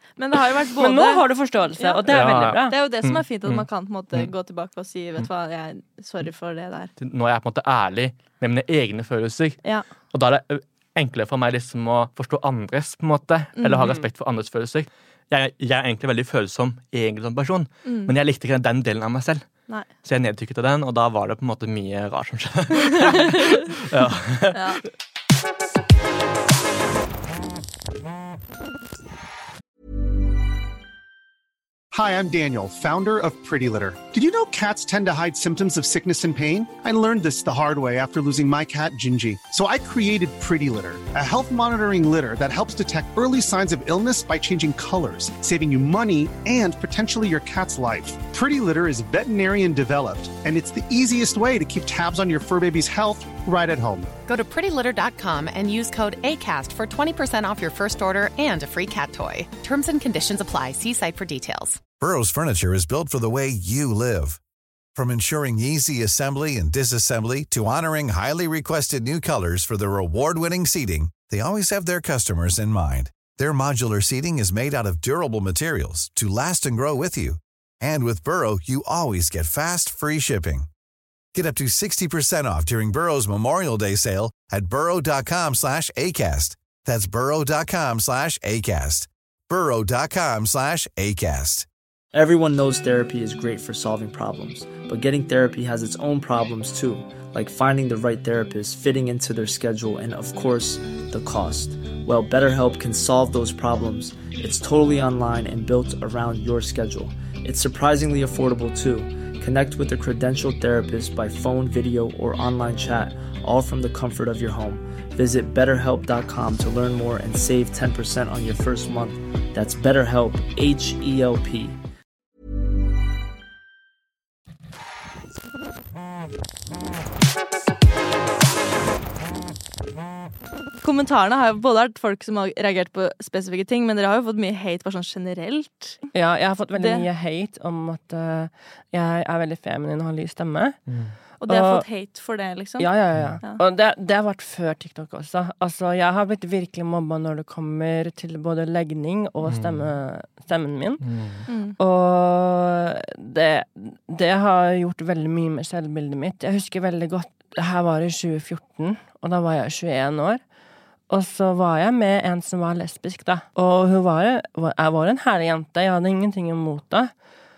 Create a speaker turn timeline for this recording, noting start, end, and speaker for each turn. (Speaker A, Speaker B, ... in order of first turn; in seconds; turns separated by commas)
Speaker A: 0.2-1.2, Speaker B: 0.8-2.8, Speaker A: 1.8-2.1, Speaker C: 2.1-4.3, Speaker A: 2.7-6.9, Speaker C: 7.0-24.6, Speaker A: 9.6-9.9, Speaker A: 13.6-14.0, Speaker A: 17.9-18.1, Speaker A: 22.9-23.6, Speaker A: 24.5-24.8, Speaker D: 31.9-54.2, Speaker E: 54.2-61.8, Speaker F: 62.0-64.4, Speaker F: 65.0-80.7, Speaker F: 81.3-91.7, Speaker G: 92.1-121.8, Speaker A: 130.8-136.1, Speaker B: 136.1-140.9, Speaker A: 136.8-137.1, Speaker C: 140.9-141.2, Speaker A: 141.4-143.6, Speaker B: 141.5-141.9, Speaker B: 142.8-151.0, Speaker C: 149.4-149.9, Speaker C: 151.0-151.5, Speaker A: 151.5-151.8, Speaker B: 151.8-160.4, Speaker B: 161.1-167.1